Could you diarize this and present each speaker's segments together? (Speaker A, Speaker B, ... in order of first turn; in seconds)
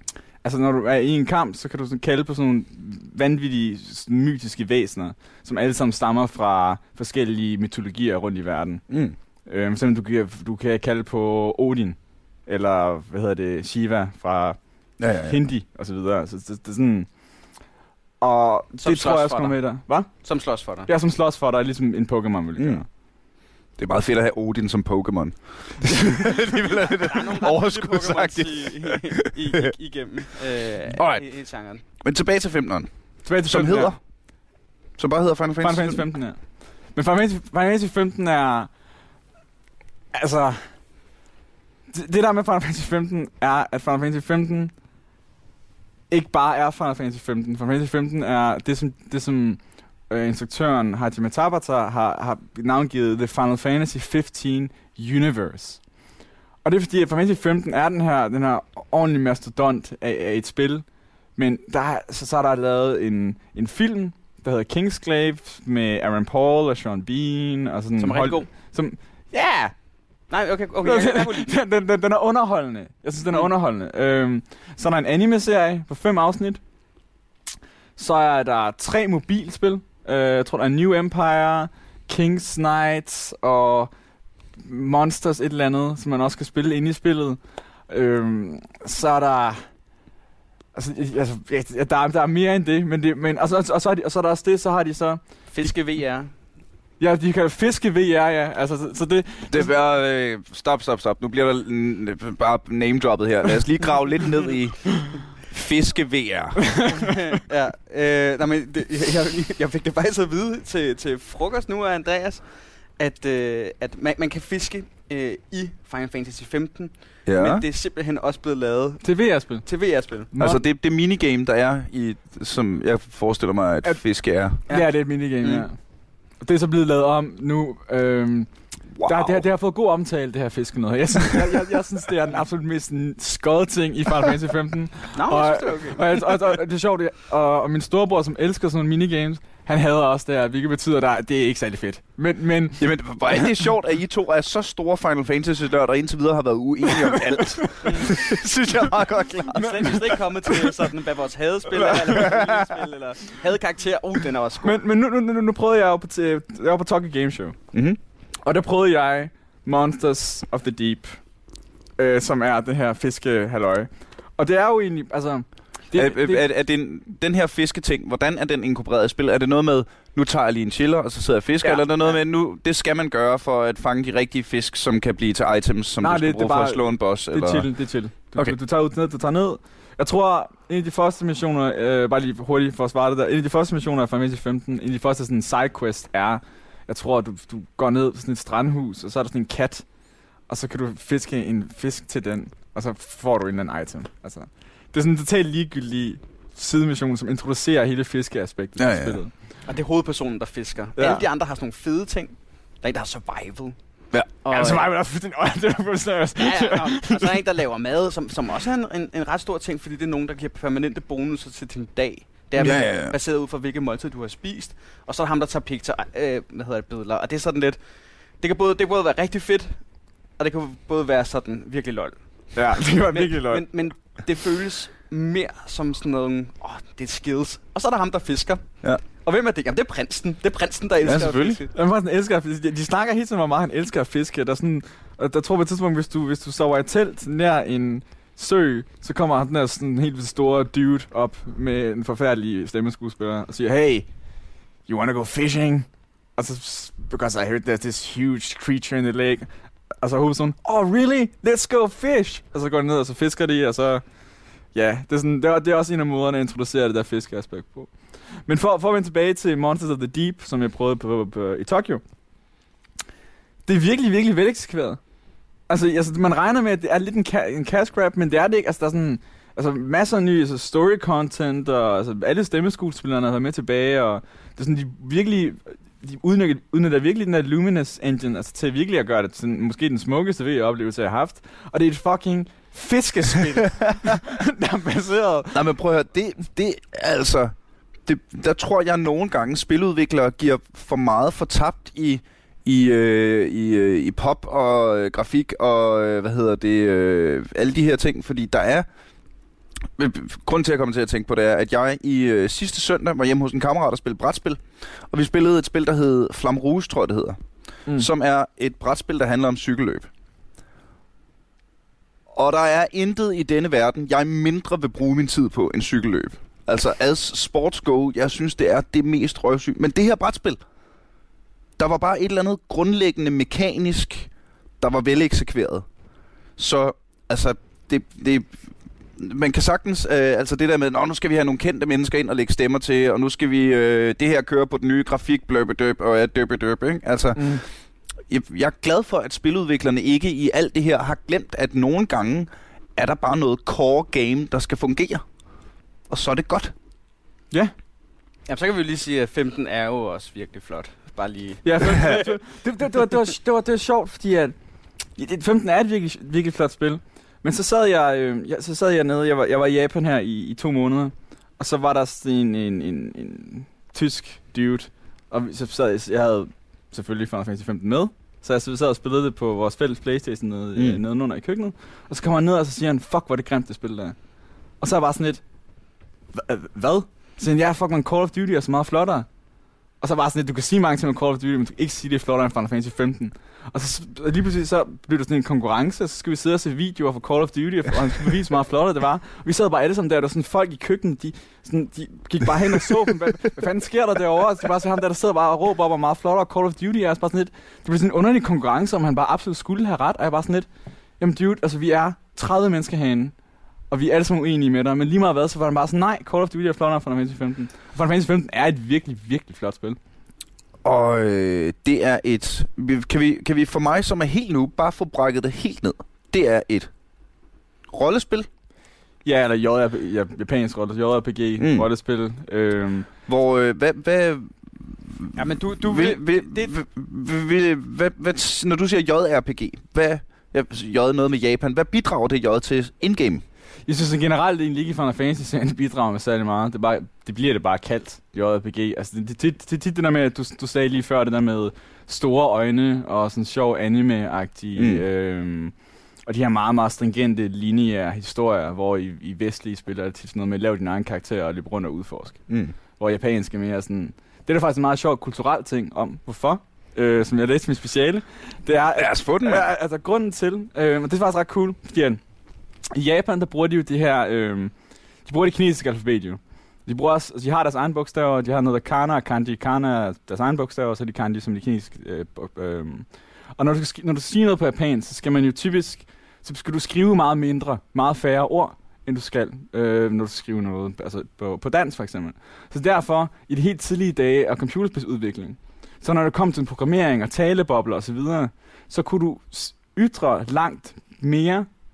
Speaker A: 0.4-8.8, 9.4-14.6, 15.2-17.1, 18.2-20.1, 20.9-22.9, 33.2-33.9, 35.6-36.4, 36.9-38.7, 40.1-40.7, 41.9-44.7, 46.1-55.8, 56.6-60.8, 61.4-69.7, 70.8-76.6, 78.0-83.9, 84.6-87.4, 87.9-89.7, 90.7-95.2, 97.0-99.7, 106.6-107.1, 119.0-119.7, 120.3-120.6, 124.7-125.8, 126.4-128.5, 129.0-142.8, 147.8-148.9, 149.5-150.7, 151.7-152.4, 154.6-157.6, 158.4-161.2, 162.0-166.4, 176.0-189.8, 190.5-199.3, 201.0-201.2, 204.5-207.3, 222.5-223.6, 231.7-244.1, 244.9-249.5, 250.0-254.0, 254.7-257.9, 258.4-262.0, 263.6-265.0, 265.7-285.6, 337.3-337.6, 351.6-354.5, 355.2-374.1, 374.8-375.4, 376.3-379.3, 380.0-400.7, 401.2-403.3, 403.9-410.0, 419.2-423.1, 433.9-445.7, 446.2-452.4, 453.0-462.2, 462.9-464.7, 465.2-473.1, 473.6-491.7
Speaker B: 8.9-9.2, 15.0-15.3, 22.6-22.8, 23.8-29.7, 30.9-31.2, 32.0-32.9, 33.4-34.0, 35.0-36.0, 99.5-106.8, 117.3-117.6, 120.4-124.6, 128.9-129.4, 142.8-150.1, 157.7-158.0, 165.9-177.7, 198.8-199.2, 212.6-213.1, 231.0-231.6, 285.5-287.5, 288.1-298.9, 300.0-307.4, 307.9-310.1, 312.3-320.6, 321.8-325.9, 326.6-337.6, 338.3-345.2, 346.1-346.7, 410.8-416.9, 417.9-418.5, 421.6-421.9, 423.3-433.4, 444.8-445.0, 452.5-452.7, 458.9-459.7
Speaker C: 18.8-19.6, 20.2-20.9, 26.6-31.8, 68.0-68.5, 70.3-71.5, 95.5-96.3, 106.9-112.4, 113.0-120.3, 124.7-125.7, 135.1-136.1, 147.8-148.1, 149.5-154.8, 199.7-203.8, 204.4-204.8, 206.4-217.8, 218.4-219.8, 220.4-222.2, 222.9-228.7, 229.2-231.7, 348.5-352.4, 425.4-426.7